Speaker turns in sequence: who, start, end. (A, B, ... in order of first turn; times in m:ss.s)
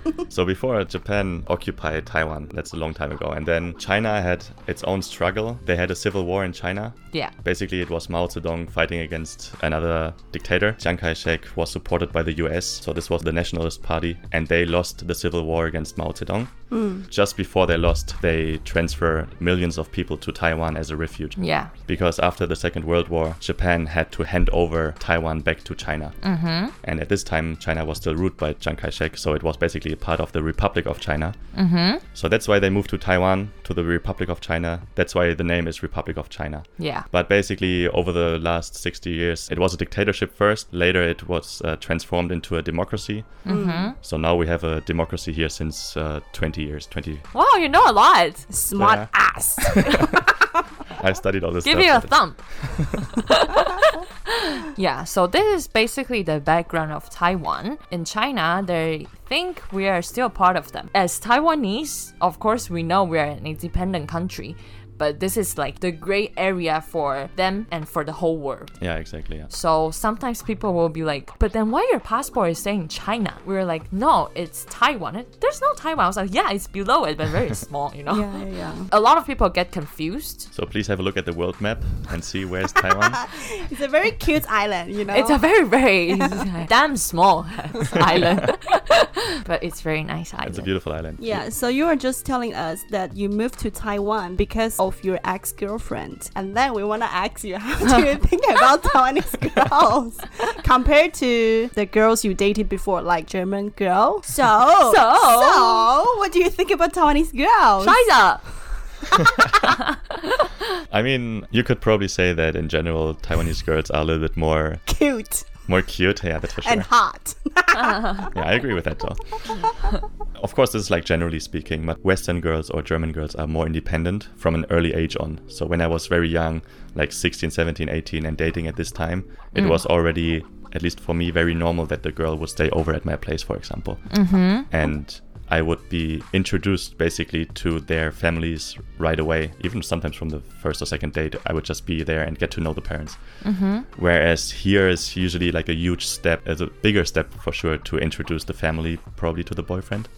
0:00.3-0:26.2 A
0:16.7-0:17.0 B
0:21.4-0:21.7 C
0:26.2-0:26.7 C
0:26.8-0:31.4 A
0:31.5-0:32.0 C
0:32.1-0:47.2 A
0:36.8-0:37.0 C
0:43.4-0:44.0 C
0:43.5-0:43.9 B
0:47.3-0:48.5 C
0:48.5-0:50.3 B
0:48.8-0:50.2 A
0:49.7-0:50.1 C
0:50.9-0:53.1 A
0:51.6-1:08.7 C
1:08.8-1:09.5 A
1:09.5-1:20.5 C
1:18.1-1:18.9 B
1:20.5-1:23.2 A
1:23.1-1:26.6 B
1:25.1-1:30.7 C
1:30.4-1:31.4 A
1:31.2-1:48.0 B
1:44.8-1:45.9 C
1:47.8-1:48.5 C
1:49.3-1:49.7 A
1:49.6-1:50.5 C
1:50.9-1:54.8 A
1:54.9-1:55.5 B
1:55.7-1:56.9 A
1:56.6-1:58.3 B
1:57.8-1:58.2 C
1:58.3-1:59.6 A
2:00.4-2:23.2 A
2:09.5-2:09.8 C
2:14.1-2:14.7 C
2:23.4-2:23.9 C
2:23.9-2:30.1 A